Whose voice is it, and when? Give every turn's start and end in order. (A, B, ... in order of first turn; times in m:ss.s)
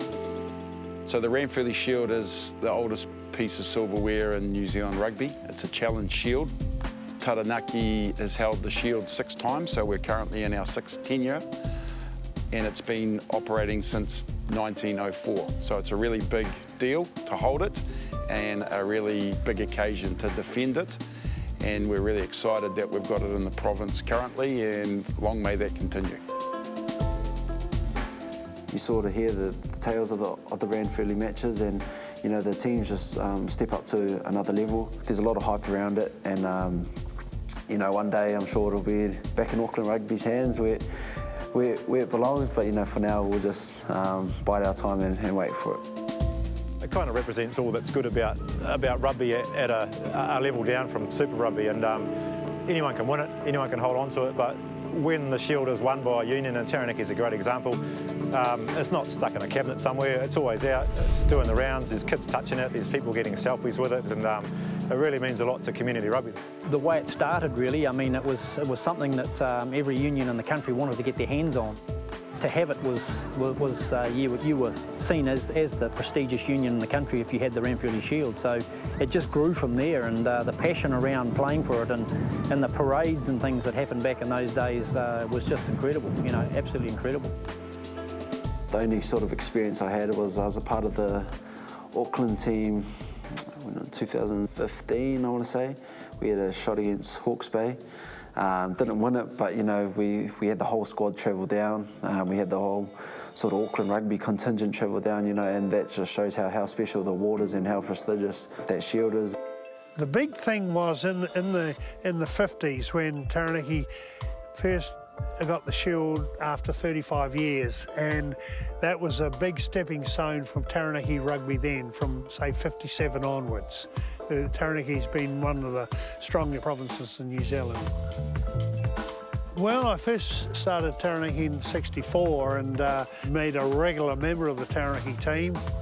0:01.1-0:06.5 A
0:07.2-0:11.5 A
0:12.5-0:21.0 A
0:21.6-0:26.2 A
0:28.7-0:36.9 B
0:37.7-0:40.8 B
0:41.5-0:45.8 B
0:46.8-0:52.1 C
0:52.6-1:06.4 C
1:06.7-1:11.8 D
1:12.4-1:27.3 D
1:28.7-1:31.3 B
1:31.9-1:37.8 B
1:38.4-1:49.4 B
1:50.0-1:53.9 E
1:54.6-2:07.9 E
2:09.5-2:15.6 E